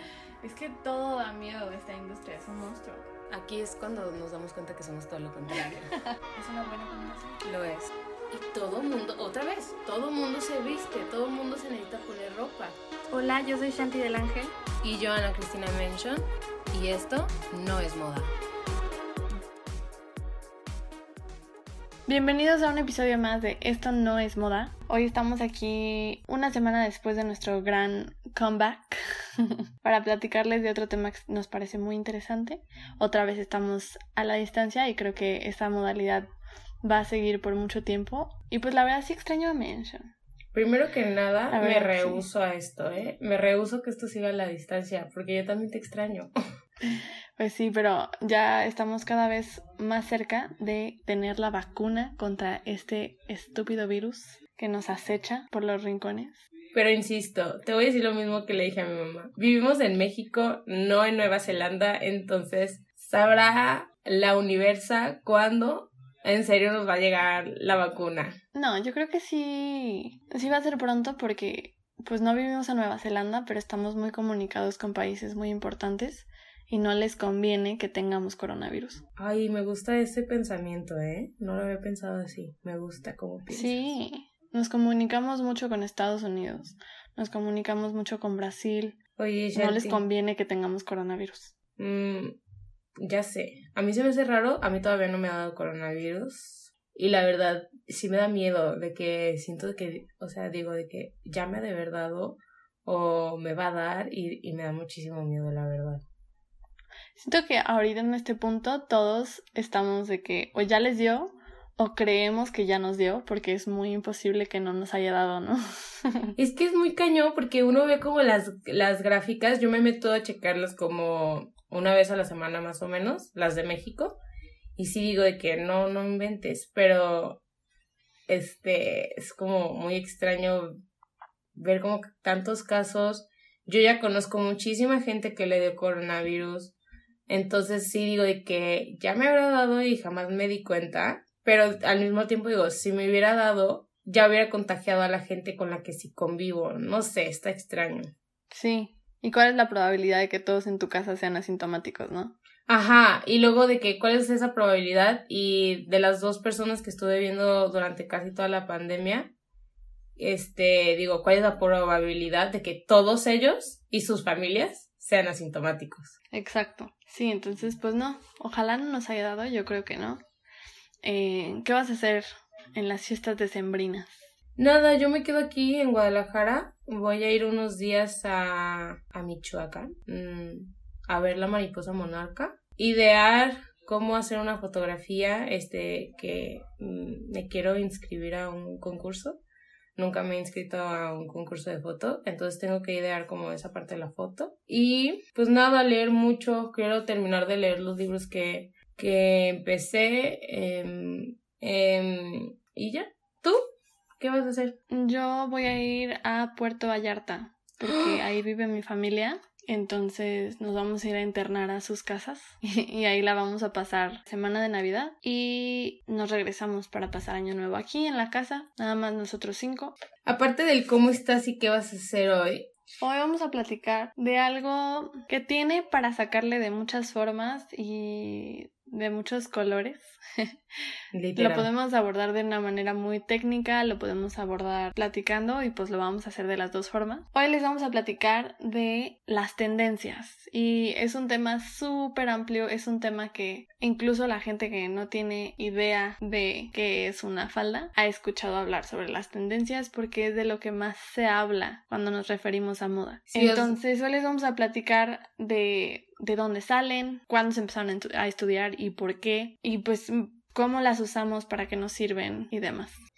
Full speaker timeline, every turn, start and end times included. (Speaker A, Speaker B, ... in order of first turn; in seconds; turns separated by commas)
Speaker A: 0.4-3.1, Speaker B: 3.3-6.0, Speaker A: 5.6-7.4, Speaker B: 7.4-12.8, Speaker A: 13.1-14.6, Speaker B: 14.8-18.3, Speaker A: 22.1-36.3, Speaker A: 36.8-40.0, Speaker B: 40.5-46.3, Speaker A: 41.5-42.2, Speaker A: 46.8-56.4, Speaker B: 56.8-68.4, Speaker A: 68.5-79.0, Speaker B: 79.2-83.9, Speaker A: 83.5-89.0, Speaker B: 89.2-90.0, Speaker A: 89.5-91.5, Speaker B: 91.8-92.3, Speaker B: 93.0-106.0, Speaker A: 107.2-116.3, Speaker B: 116.4-124.1, Speaker B: 124.8-127.4, Speaker B: 128.3-130.7, Speaker B: 131.5-136.7, Speaker B: 137.3-148.1, Speaker A: 148.5-152.3, Speaker B: 152.7-159.3, Speaker B: 160.2-166.1, Speaker A: 166.3-170.2, Speaker A: 171.0-174.2, Speaker B: 174.6-189.4, Speaker B: 189.9-203.6, Speaker B: 204.2-204.8, Speaker A: 204.9-219.9, Speaker B: 220.2-222.7, Speaker A: 223.0-230.6, Speaker B: 231.1-231.7, Speaker A: 231.4-262.9, Speaker B: 253.3-253.7